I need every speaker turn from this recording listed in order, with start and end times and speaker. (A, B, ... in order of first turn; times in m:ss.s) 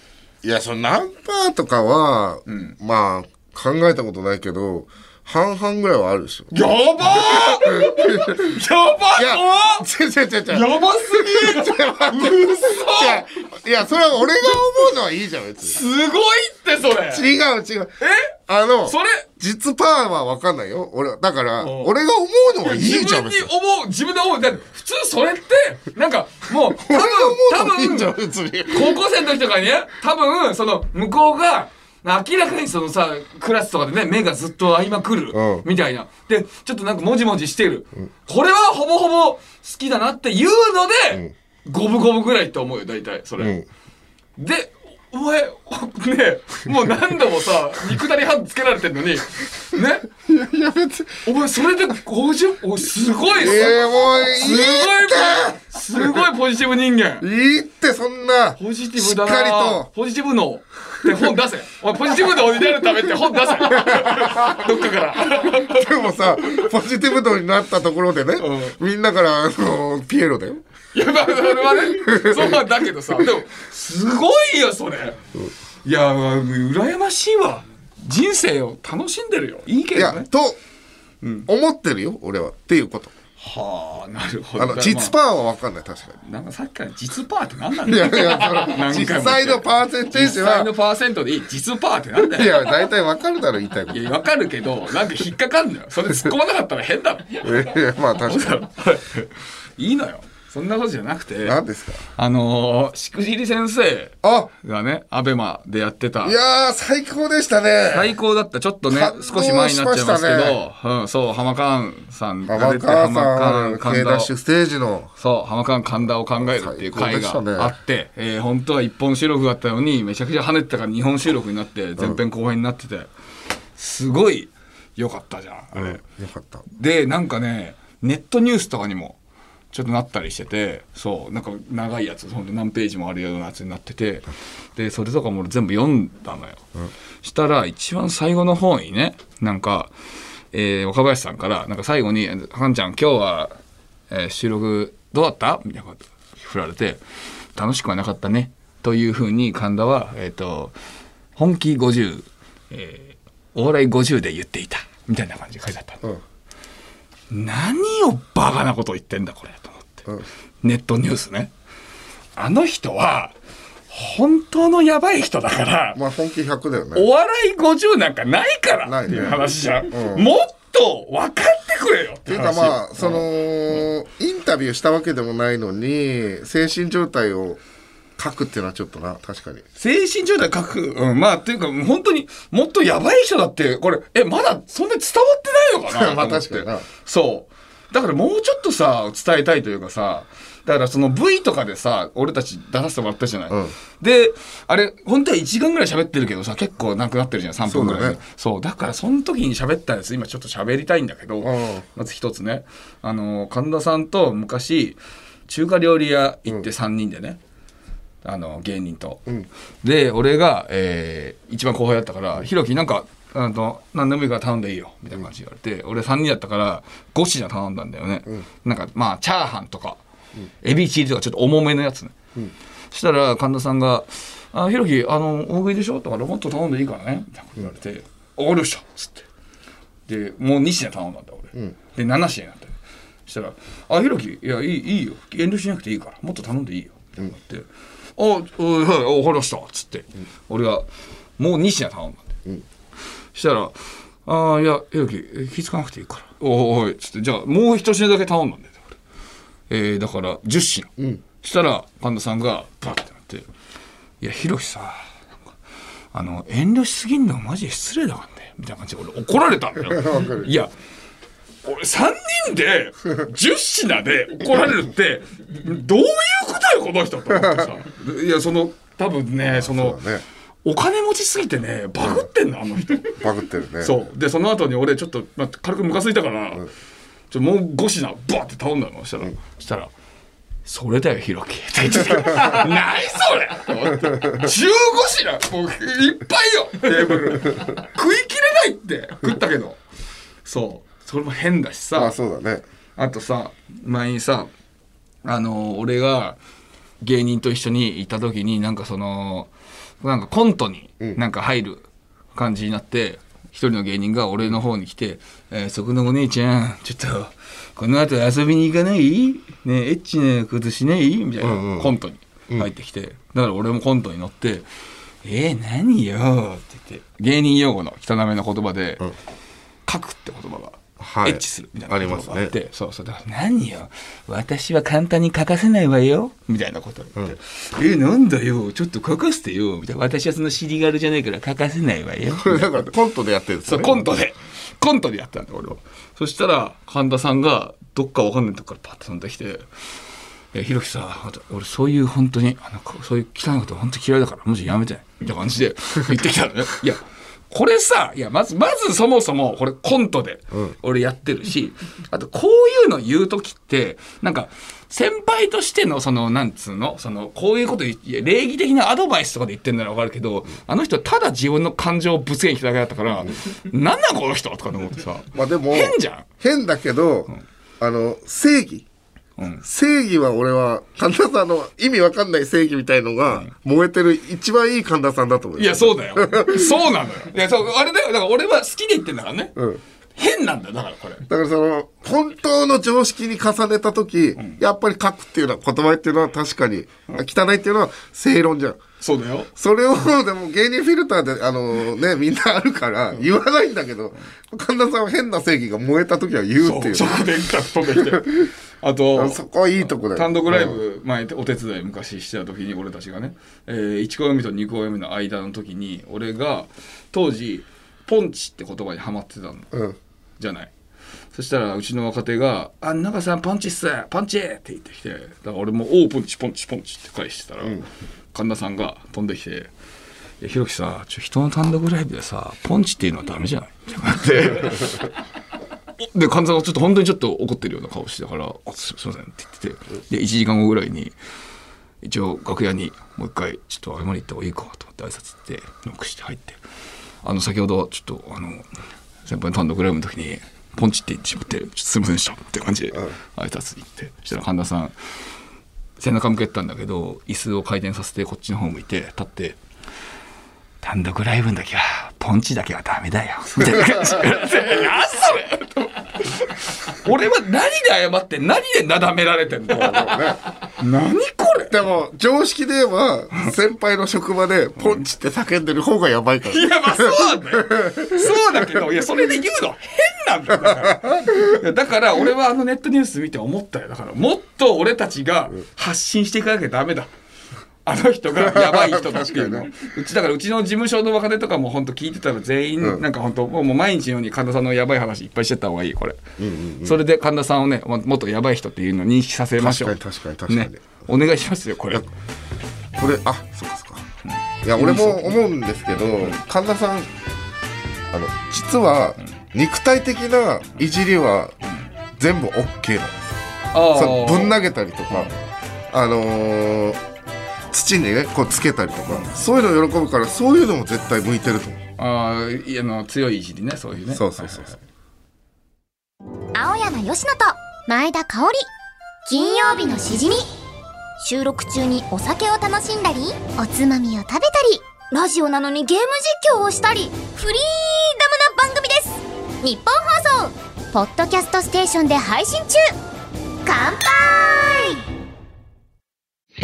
0:00.4-0:06.5 A
0:02.5-0:02.8 B
0:06.5-0:09.9 B
0:07.1-0:08.6 A
0:09.1-0:15.8 A
0:10.5-0:13.3 B
0:15.6-0:17.3 B
0:17.1-0:23.5 A
0:18.0-0:19.3 B
0:21.6-0:21.9 B
0:22.6-0:28.2 B
0:26.6-0:29.0 A
0:28.7-0:43.6 B
0:35.3-0:35.7 A
0:43.4-0:43.7 A
0:44.4-0:50.1 B
0:50.2-0:51.2 A
0:51.2-0:57.3 B
0:53.4-0:56.3 A
0:57.2-0:59.9 A
0:58.6-1:06.6 B
1:03.6-1:04.8 A
1:05.4-1:10.6 A
1:08.4-1:08.8 B
1:10.9-1:15.2 B
1:11.8-1:12.6 A
1:15.8-1:20.3 B
1:20.0-1:20.6 A
1:21.2-1:21.5 B
1:21.5-1:23.1 A
1:23.4-1:25.2 B
1:24.6-1:26.2 A
1:26.2-1:32.7 B
1:27.8-1:30.7 A
1:32.2-1:34.0 A
1:33.9-1:41.6 B
1:37.4-1:38.6 A
1:41.4-1:42.0 A
1:42.2-1:46.4 B
1:44.2-1:44.5 A
1:46.2-1:48.1 A
1:47.9-1:54.3 B
1:48.9-1:50.6 A
1:52.5-1:55.1 A
1:55.2-2:03.1 B
1:56.5-1:57.8 A
2:03.8-2:06.0 B
2:05.7-2:06.6 A
2:06.7-2:09.2 B
2:09.7-2:16.6 B
2:17.2-2:19.9 B
2:20.5-2:23.5 B
2:24.1-2:27.0 B
2:27.6-2:30.7 B
2:31.4-2:36.0 B
2:37.3-2:40.1 B
2:40.6-2:41.5 B
2:42.4-2:43.3 B
2:43.9-2:46.0 B
2:46.0-2:47.1 A
2:47.0-2:53.8 B
2:48.8-2:50.3 A
2:52.3-2:57.6 A
2:58.2-2:59.6 A
2:59.8-3:27.4 B
3:05.9-3:06.9 A
3:13.5-3:13.8 A
3:17.6-3:18.2 A
3:21.4-3:21.9 A
3:28.2-3:29.2 B
3:29.8-3:40.0 B
3:40.6-3:42.2 B
3:42.9-3:49.2 B
3:50.1-3:57.7 B
3:58.2-4:00.9 B
4:01.4-4:02.3 B
4:03.3-4:08.9 B
4:09.7-4:13.5 B
4:14.2-4:15.0 B
4:16.1-4:20.7 B
4:19.8-4:20.5 A
4:21.6-4:30.0 B
4:27.3-4:27.7 A
4:29.5-4:30.2 A
4:30.6-4:33.2 B
4:32.0-4:32.3 A
4:33.2-4:34.0 A
4:33.8-4:36.7 B
4:37.3-4:39.9 B
4:40.7-4:49.8 B
4:44.0-4:44.4 A
4:50.4-4:52.2 B
4:52.0-4:52.6 A
4:53.0-4:54.5 B
4:55.2-4:56.4 B
4:57.0-4:59.5 B
5:00.0-5:14.7 B
5:11.4-5:11.9 A
5:15.2-5:19.1 B
5:19.9-5:32.9 B
5:21.0-5:22.5 A
5:32.4-5:34.1 A
5:33.7-5:39.7 B
5:40.5-6:06.2 B
6:05.3-6:08.9 A
6:09.4-6:09.6 B
6:09.6-6:16.8 A
6:15.6-6:19.5 B
6:19.6-6:19.8 A
6:20.2-6:21.2 B
6:21.3-6:28.8 A
6:29.0-6:29.5 B
6:29.6-6:37.3 A
6:36.6-6:49.7 B
6:38.0-6:38.4 A
6:39.1-6:40.8 A
6:49.7-6:50.0 A
6:50.4-6:50.7 B
6:51.3-6:59.7 B
7:00.4-7:05.1 B
7:06.0-7:11.2 B
7:12.0-7:16.6 B
7:17.2-7:18.7 B
7:19.3-7:24.9 B
7:26.0-7:29.6 B
7:30.8-7:40.2 B
7:33.7-7:33.9 A
7:39.7-7:40.4 A
7:40.8-7:41.7 B
7:41.7-7:48.7 A
7:46.5-7:57.1 B
7:50.6-7:51.4 A
7:57.9-8:06.2 B
7:58.4-7:59.7 A
8:06.4-8:07.0 A
8:06.8-8:10.0 B
8:09.6-8:10.8 A
8:10.5-8:12.1 B
8:13.0-8:14.0 A
8:14.3-8:15.4 B
8:14.6-8:17.1 A
8:18.1-8:21.6 A
8:22.2-8:25.3 A
8:23.7-8:24.6 B
8:25.9-8:27.0 A
8:27.7-8:31.8 A
8:32.0-8:34.8 B
8:34.1-8:34.8 A
8:36.6-8:38.7 C
8:39.3-8:40.5 C
8:41.2-8:53.0 C
8:53.6-8:55.0 C